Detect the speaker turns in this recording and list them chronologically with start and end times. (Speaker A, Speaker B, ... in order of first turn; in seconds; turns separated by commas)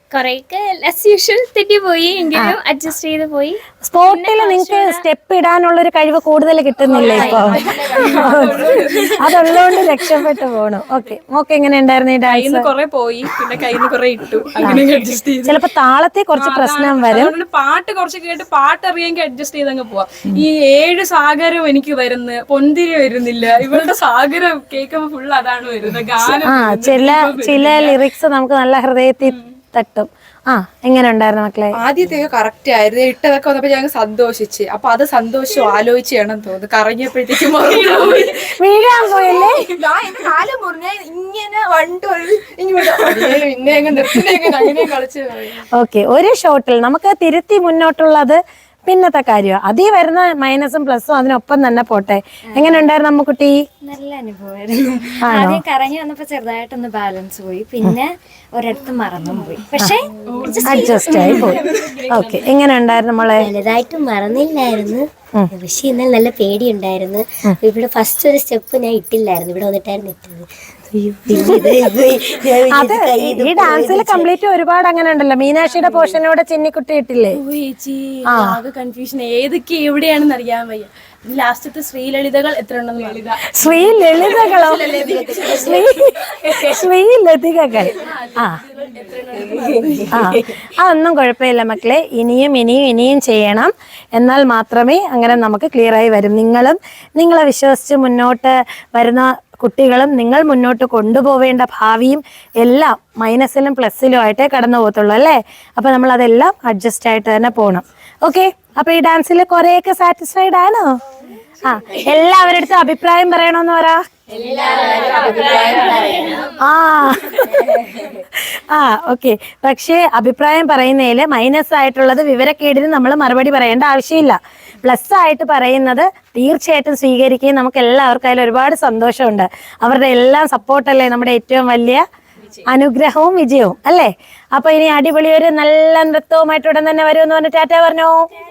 Speaker A: 0.1-5.0, Speaker B: 3.8-12.7, Speaker C: 6.9-10.0, Speaker A: 7.0-7.5, Speaker D: 8.3-8.7, Speaker C: 12.2-15.6, Speaker B: 15.4-17.3, Speaker C: 16.4-28.0, Speaker B: 26.3-31.8, Speaker D: 31.7-38.5, Speaker C: 37.6-39.7, Speaker B: 38.4-39.6, Speaker D: 39.1-45.6, Speaker C: 44.1-44.9, Speaker B: 45.8-53.6, Speaker A: 53.8-61.5, Speaker B: 55.2-55.6, Speaker C: 60.3-62.4, Speaker B: 60.6-63.5, Speaker E: 63.3-70.5, Speaker B: 70.9-71.4, Speaker E: 71.1-74.3, Speaker B: 72.5-77.4, Speaker C: 77.3-86.7, Speaker B: 78.3-78.5, Speaker B: 83.5-88.6, Speaker C: 88.0-90.3, Speaker B: 90.1-111.0, Speaker B: 111.6-114.0, Speaker E: 114.3-116.5, Speaker B: 116.4-132.0, Speaker B: 132.6-138.2